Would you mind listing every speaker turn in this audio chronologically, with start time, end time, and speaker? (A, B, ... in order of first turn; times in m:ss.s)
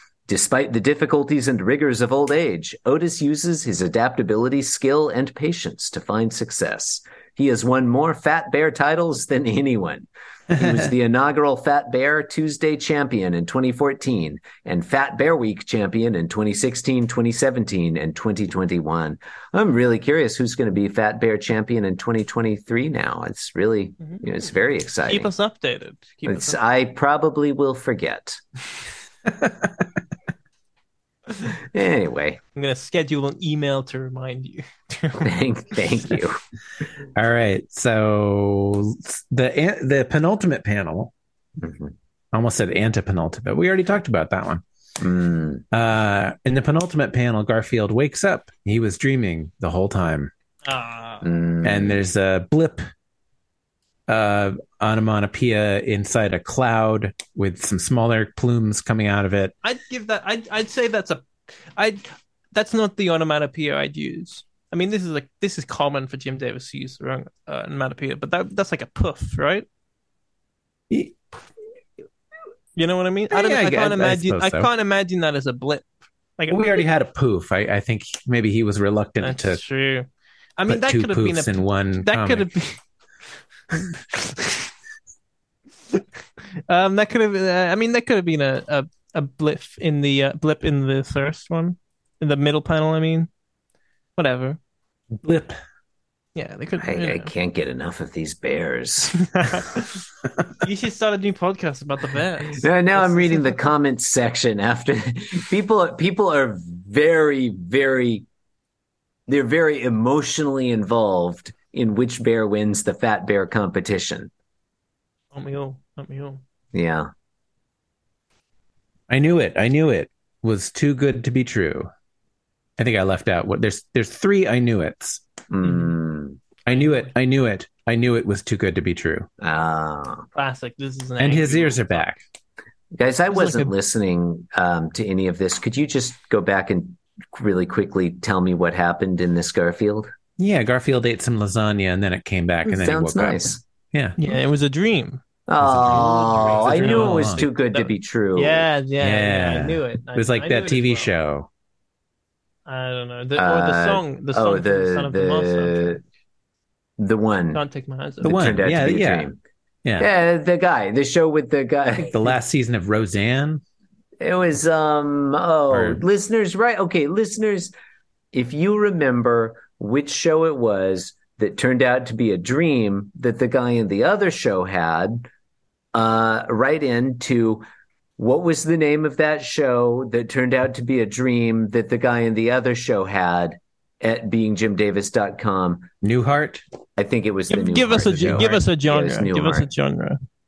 0:00.3-0:25.3 A
0:25.1-0:26.6 B
0:26.2-0:28.4 A
0:29.4-0:29.7 C
0:31.7-0:32.4 A
0:32.5-0:35.3 B
0:35.2-0:36.4 A
0:37.2-0:41.1 C
0:41.6-0:41.9 A
0:42.3-0:44.6 C
0:45.0-0:45.6 A
0:45.7-0:50.3 C
0:50.6-0:51.3 B
0:51.2-0:52.0 A
0:51.6-0:52.8 C
0:54.1-0:59.5 C
0:59.6-1:01.2 B
1:01.8-1:09.7 B
1:10.9-1:11.2 C
1:12.7-1:15.8 B
1:13.3-1:14.7 C
1:16.4-1:16.7 B
1:16.5-1:19.6 C
1:19.2-1:22.8 B
1:20.7-1:22.5 C
1:23.7-1:24.7 B
1:26.7-1:33.3 B
1:34.2-1:34.6 B
1:35.2-1:35.5 C
1:36.3-1:37.3 B
1:36.8-1:39.2 A
1:39.3-1:40.0 B
1:40.6-1:43.6 B
1:42.6-1:48.2 A
1:49.3-1:54.3 A
1:55.3-1:56.4 B
1:56.7-1:57.1 A
1:59.1-2:01.9 C
2:02.8-2:05.2 C
2:05.5-2:06.4 A
2:06.6-2:09.3 C
2:06.7-2:07.1 B
2:09.4-2:10.3 A
2:10.3-2:12.1 B
2:11.2-2:12.2 C
2:12.9-2:20.1 A
2:13.3-2:13.7 B
2:20.4-2:24.2 C
2:22.7-2:23.6 A
2:24.2-2:25.2 B
2:25.5-2:28.7 A
2:25.6-2:27.5 C
2:25.8-2:31.1 B
2:29.0-2:31.5 C
2:32.6-2:36.0 B
2:33.4-2:36.0 A
2:37.0-2:37.6 A
2:37.5-2:38.4 B
2:38.2-2:39.4 A
2:38.2-2:39.3 C
2:39.8-2:40.1 C
2:40.0-2:42.3 A
2:42.1-2:43.6 C
2:44.2-2:47.7 A
2:45.7-2:46.0 C
2:48.3-2:55.3 A
2:55.9-2:57.6 A
2:58.2-3:05.9 A
3:06.0-3:06.6 C
3:07.0-3:08.2 A
3:07.5-3:10.2 B
3:08.0-3:08.7 C
3:08.8-3:09.7 A